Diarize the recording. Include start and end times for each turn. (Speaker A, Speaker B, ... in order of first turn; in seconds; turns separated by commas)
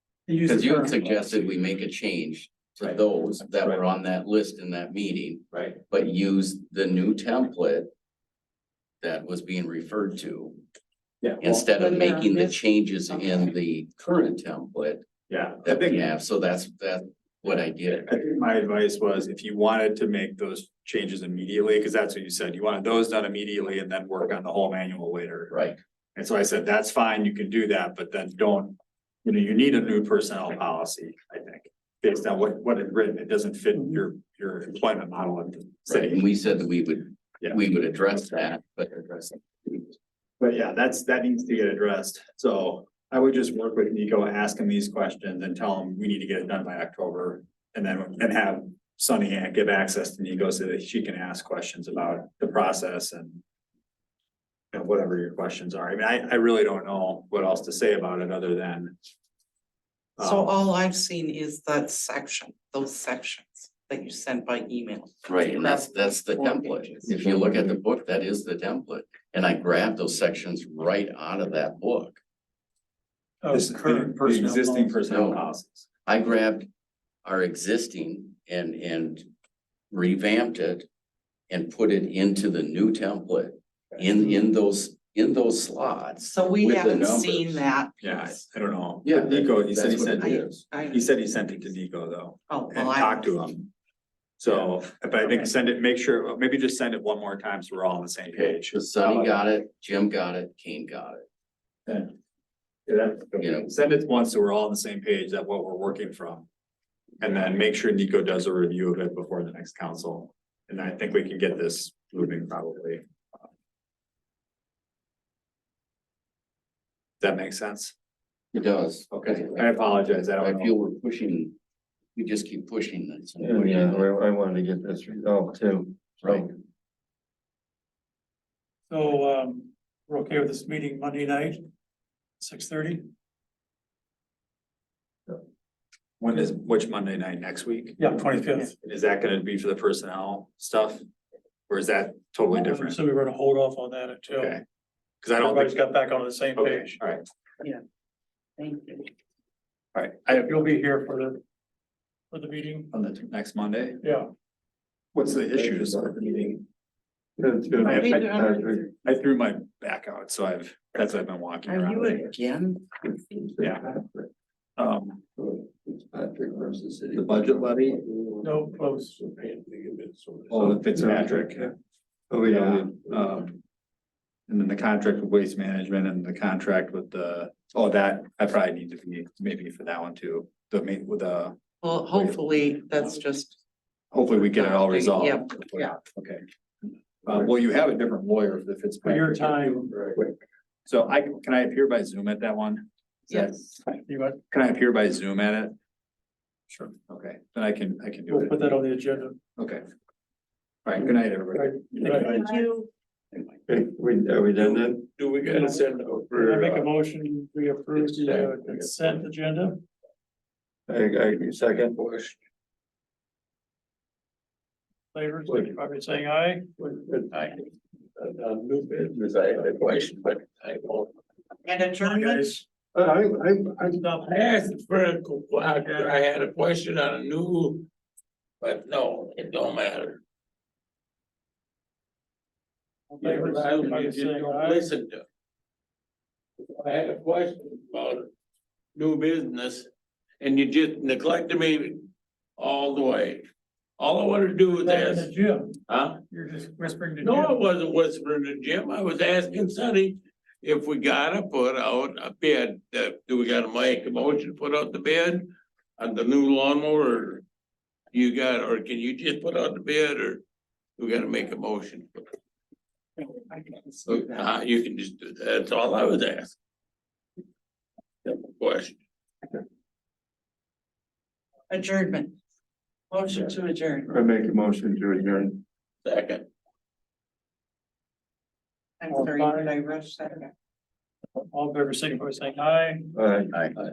Speaker A: 0.3-1.4, Speaker B: 0.4-7.9, Speaker C: 3.5-3.8, Speaker C: 5.5-5.8, Speaker B: 9.0-10.6, Speaker C: 11.2-11.7, Speaker B: 11.4-15.0, Speaker D: 11.5-13.5, Speaker C: 15.3-16.1, Speaker B: 15.6-18.1, Speaker C: 18.1-25.6, Speaker B: 25.5-25.8, Speaker C: 26.1-36.3, Speaker B: 35.9-39.8, Speaker C: 40.4-53.4, Speaker C: 54.7-59.0, Speaker D: 60.2-67.1, Speaker C: 60.2-60.5, Speaker B: 65.3-72.2, Speaker E: 67.0-67.8, Speaker A: 73.4-75.0, Speaker C: 73.5-75.9, Speaker B: 75.1-75.4, Speaker B: 76.1-76.7, Speaker B: 77.2-79.3, Speaker B: 79.9-80.9, Speaker B: 81.5-87.6, Speaker D: 86.2-88.4, Speaker C: 88.0-93.7, Speaker B: 89.0-90.6, Speaker D: 90.2-91.7, Speaker D: 92.5-93.5, Speaker C: 94.4-99.4, Speaker B: 98.3-101.2, Speaker C: 101.9-102.1, Speaker C: 102.9-106.5, Speaker B: 103.4-103.7, Speaker C: 107.2-113.0, Speaker C: 117.2-117.9, Speaker B: 118.5-119.9, Speaker C: 119.1-120.8, Speaker B: 120.4-121.6, Speaker B: 122.2-124.1, Speaker E: 123.4-126.5, Speaker B: 126.2-126.5, Speaker A: 128.9-131.6, Speaker A: 132.4-133.1, Speaker C: 136.2-141.0, Speaker A: 138.0-138.7, Speaker C: 141.7-143.0, Speaker A: 142.5-144.6, Speaker C: 144.3-144.6, Speaker C: 145.2-145.8, Speaker A: 145.4-147.0, Speaker C: 146.6-147.2, Speaker D: 148.6-149.1, Speaker C: 149.9-150.5, Speaker A: 150.3-151.4, Speaker A: 152.3-152.9, Speaker C: 152.9-154.0, Speaker A: 154.0-154.3, Speaker C: 155.1-156.6, Speaker E: 155.5-156.5, Speaker E: 157.4-158.8, Speaker D: 157.8-159.0, Speaker C: 157.8-162.3, Speaker D: 161.7-163.0, Speaker E: 163.4-164.3, Speaker C: 163.6-163.9, Speaker C: 164.8-165.2, Speaker E: 165.4-168.3, Speaker C: 167.1-168.0, Speaker A: 168.4-169.2, Speaker F: 168.8-170.8, Speaker C: 170.5-171.7, Speaker E: 170.6-171.7, Speaker E: 172.3-173.3, Speaker C: 172.5-173.6, Speaker C: 174.5-182.4, Speaker D: 181.8-183.6, Speaker C: 184.1-186.4, Speaker D: 184.4-186.0, Speaker C: 187.2-190.3, Speaker A: 189.0-189.9, Speaker C: 190.9-193.9, Speaker D: 193.3-193.8, Speaker A: 194.1-194.4, Speaker C: 194.5-195.8, Speaker C: 197.1-198.7, Speaker A: 198.3-199.4, Speaker C: 199.6-199.8, Speaker C: 200.8-202.2, Speaker A: 201.5-202.4, Speaker D: 202.0-202.9, Speaker E: 203.7-205.1, Speaker F: 204.6-206.9, Speaker A: 206.4-209.8, Speaker F: 207.9-209.2, Speaker E: 210.9-212.0, Speaker F: 211.8-212.4, Speaker A: 215.1-216.7, Speaker E: 216.8-217.3, Speaker F: 218.2-221.1, Speaker D: 221.6-222.6, Speaker A: 222.0-222.6, Speaker E: 222.9-224.0, Speaker A: 223.9-224.3, Speaker F: 224.2-227.9, Speaker A: 225.8-226.2, Speaker F: 228.6-230.2, Speaker A: 233.1-234.9, Speaker F: 233.2-235.2, Speaker F: 236.7-238.3, Speaker F: 239.0-239.9, Speaker F: 240.4-243.5, Speaker F: 244.0-245.3, Speaker A: 244.7-245.8, Speaker F: 245.9-246.2, Speaker A: 246.3-247.6, Speaker F: 247.2-257.4, Speaker F: 258.1-260.4, Speaker F: 261.0-262.2, Speaker D: 263.2-264.5, Speaker F: 264.1-266.6, Speaker F: 268.2-269.0, Speaker D: 271.7-272.4, Speaker D: 273.1-274.2, Speaker E: 274.1-275.6, Speaker F: 276.1-276.4, Speaker D: 279.0-280.5, Speaker A: 279.1-279.8, Speaker A: 281.4-283.1, Speaker E: 283.1-283.5